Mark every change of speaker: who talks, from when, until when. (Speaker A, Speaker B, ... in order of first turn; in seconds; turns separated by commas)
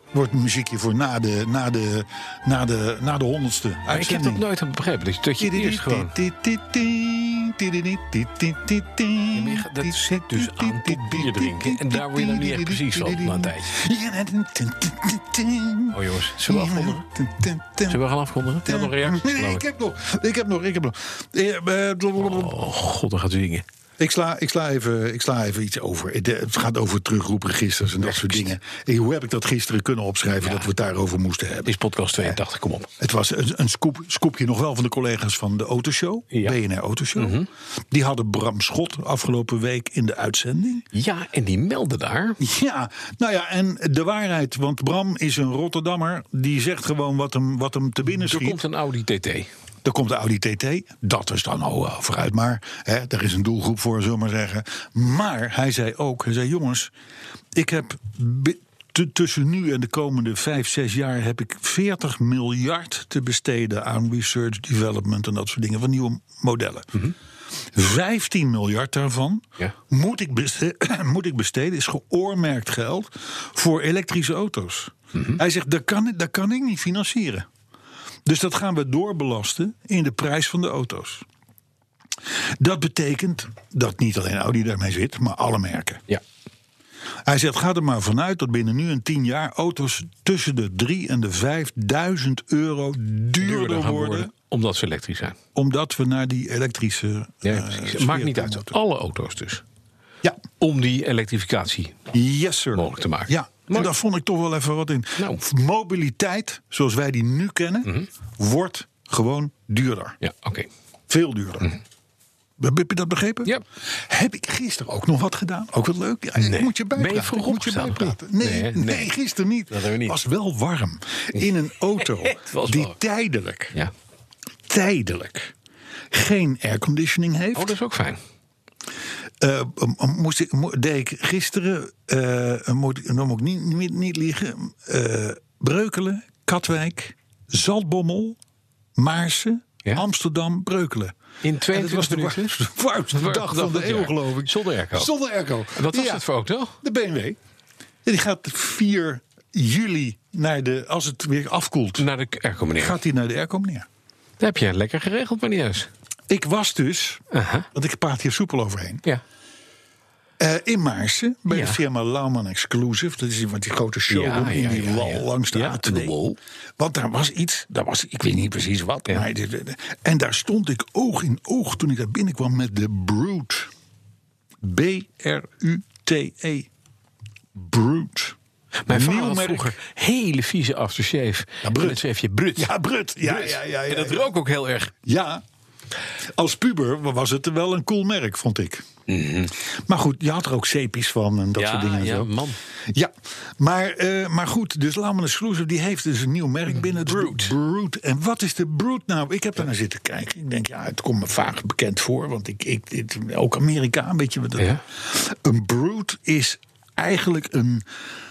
Speaker A: 0.1-4.5, Speaker B: 3.9-6.1, Speaker A: 5.4-18.0, Speaker B: 9.3-13.7, Speaker B: 15.9-17.0, Speaker B: 17.9-19.6, Speaker A: 18.6-22.5, Speaker B: 22.2-23.6, Speaker A: 24.0-32.4, Speaker B: 28.0-28.5, Speaker B: 30.4-30.7, Speaker B: 31.6-32.9, Speaker A: 33.0-37.4, Speaker B: 37.1-37.5, Speaker A: 37.9-40.9, Speaker B: 40.9-42.4, Speaker A: 42.4-48.6, Speaker B: 48.1-49.5, Speaker A: 49.8-56.9, Speaker A: 57.5-67.0, Speaker A: 67.7-77.5, Speaker A: 78.2-81.2, Speaker A: 82.6-86.0, Speaker A: 87.2-94.3, Speaker B: 93.4-95.4, Speaker A: 95.5-98.8, Speaker B: 97.4-99.6, Speaker B: 100.6-102.0, Speaker A: 102.1-110.2, Speaker B: 102.7-103.9, Speaker B: 105.2-105.4, Speaker B: 110.2-110.7, Speaker A: 111.1-111.7, Speaker A: 112.6-123.7, Speaker B: 116.4-119.1, Speaker B: 119.7-120.2, Speaker B: 122.0-123.0, Speaker A: 124.7-125.5, Speaker A: 126.1-127.8, Speaker B: 127.5-128.2, Speaker A: 129.4-138.4, Speaker A: 138.9-141.1, Speaker B: 141.4-142.5, Speaker A: 141.7-146.2, Speaker B: 143.1-145.1, Speaker B: 145.7-146.8, Speaker A: 146.8-147.4, Speaker A: 148.0-152.1, Speaker B: 152.0-153.0, Speaker A: 152.8-153.9, Speaker B: 154.4-155.9, Speaker A: 156.3-159.0, Speaker B: 157.3-157.7, Speaker A: 160.4-166.2, Speaker B: 161.5-161.8, Speaker B: 164.1-166.4, Speaker A: 166.8-173.7, Speaker A: 174.6-176.7, Speaker A: 177.5-178.3, Speaker B: 178.8-184.9, Speaker A: 178.9-179.8, Speaker A: 181.6-182.0, Speaker A: 182.6-184.3, Speaker A: 185.0-185.4, Speaker A: 186.3-188.8, Speaker B: 189.1-189.5, Speaker A: 189.6-192.3, Speaker B: 191.6-192.6, Speaker A: 192.9-207.8, Speaker B: 196.7-197.5, Speaker B: 204.6-204.8